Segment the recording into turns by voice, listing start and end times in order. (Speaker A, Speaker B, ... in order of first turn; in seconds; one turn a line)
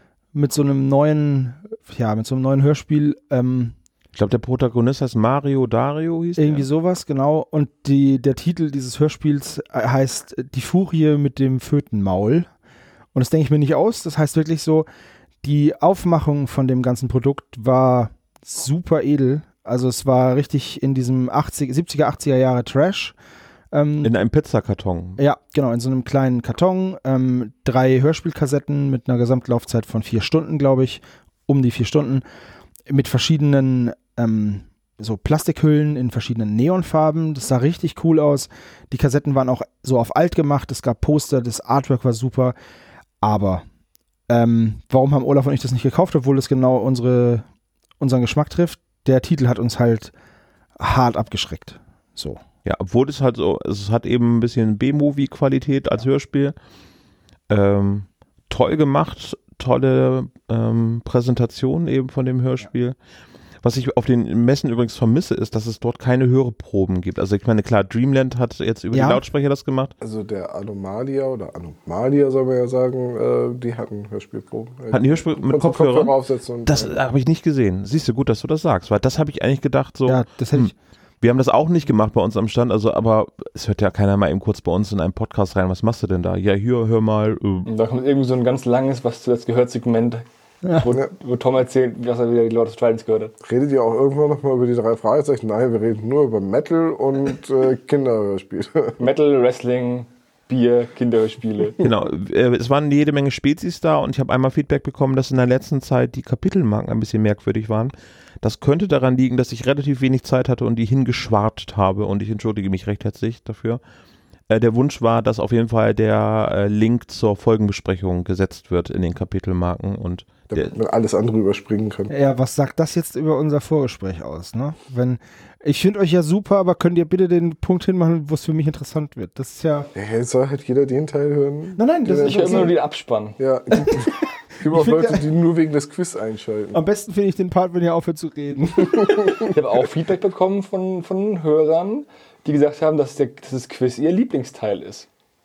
Speaker A: 0.3-3.8
Speaker B: 4.2-6.7
Speaker A: 6.4-12.5
Speaker A: 13.1-14.9
Speaker A: 15.4-23.1
Speaker A: 23.7-24.1
Speaker B: 24.0-25.2
Speaker A: 25.2-32.2
Speaker A: 32.9-42.6
Speaker A: 43.2-43.6
Speaker A: 44.3-47.5
Speaker A: 48.0-50.1
Speaker A: 50.8-52.4
Speaker B: 52.6-56.5
Speaker B: 57.5-63.0
Speaker B: 63.6-69.9
Speaker A: 68.9-69.2
Speaker C: 70.0-77.0
Speaker B: 74.9-76.1
Speaker B: 76.7-87.7
Speaker A: 80.1-80.7
Speaker D: 87.7-90.2
Speaker D: 90.8-93.3
Speaker C: 93.4-99.0
Speaker D: 99.0-101.8
Speaker B: 101.8-113.8
Speaker B: 114.5-120.8
Speaker C: 120.5-122.1
Speaker A: 122.1-129.9
Speaker C: 129.9-132.8
Speaker A: 131.8-132.7
Speaker D: 132.2-133.4
Speaker C: 133.4-136.8
Speaker A: 134.7-135.3
Speaker A: 136.7-139.3
Speaker C: 138.9-139.3
Speaker D: 139.5-145.1